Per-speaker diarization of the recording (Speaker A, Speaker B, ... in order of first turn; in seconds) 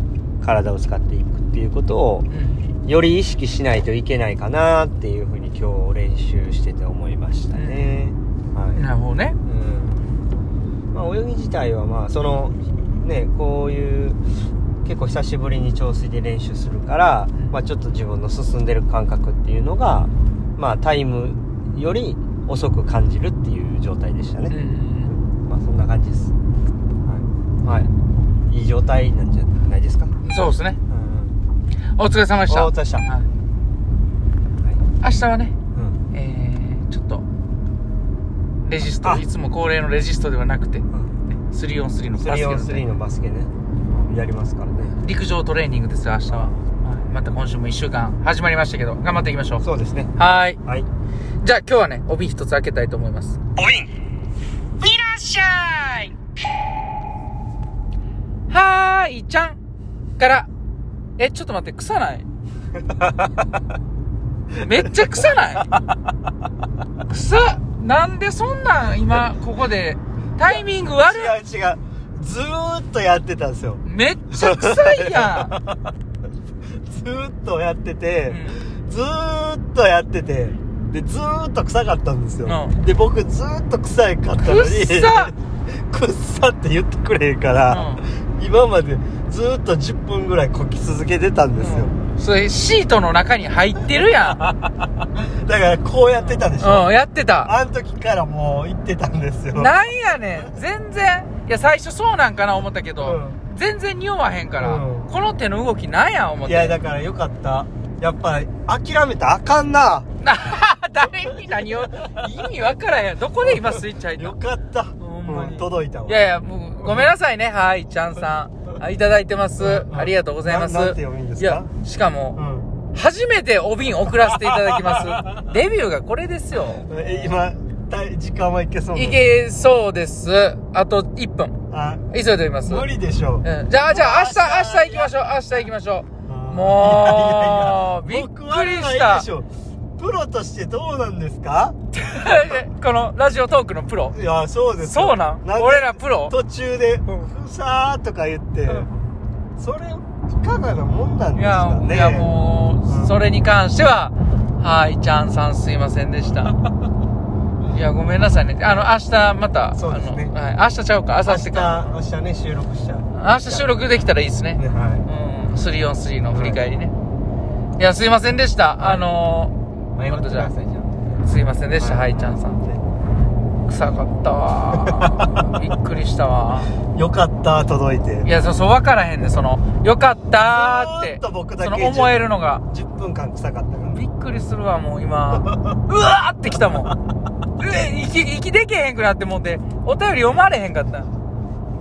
Speaker A: 0.4-2.3, 2.9-8.8, 9.4-10.1, 10.9-14.2, 14.8-24.6, 25.1-26.3, 27.1-27.9, 28.5-30.2, 30.9-31.4, 32.5-33.1, 35.7-36.0, 42.2-45.0, 46.3-46.5, 49.6-50.1, 53.6-53.9, 62.8-63.5, 64.6-65.6, 70.4-75.9, 76.8-91.9, 94.0-99.7, 103.0-103.4, 104.6-105.1, 106.4-110.1, 111.2-111.9, 113.4-117.1, 119.6-121.7, 122.3-122.7, 124.4-125.1, 126.8-129.2, 131.7-132.1, 132.6-135.1, 136.3-142.6, 144.1-148.9, 149.6-153.1, 159.7-160.3, 161.2-163.8, 164.6-165.1, 166.3-166.7, 168.8-169.1, 169.9-172.8, 174.8-175.5, 176.9-178.3, 180.4-184.0, 185.3-185.8, 186.6-187.0
Speaker B: 2.3-2.6, 7.5-8.0, 8.7-9.4, 24.5-25.1, 30.2-30.8, 32.0-33.3, 35.0-35.6, 36.1-37.2, 38.6-42.8, 45.0-49.6, 50.2-50.6, 51.4-53.4, 54.8-56.1, 58.5-59.6, 60.2-60.5, 61.2-62.3, 64.6-65.7, 67.1-71.3, 73.8-75.6, 78.3-78.6, 82.5-82.8, 84.4-85.3, 87.7-88.0, 91.6-94.5, 96.2-97.5, 99.5-106.8, 110.2-114.4, 115.0-122.4, 122.9-126.8, 128.9-131.6, 132.1-132.8, 133.4-139.3, 141.9-144.2, 144.8-146.3, 151.4-156.6, 157.7-161.9, 163.1-166.9, 167.8-170.5, 171.2-172.6, 173.7-176.7, 178.2-182.6, 183.9-186.9, 187.6-191.1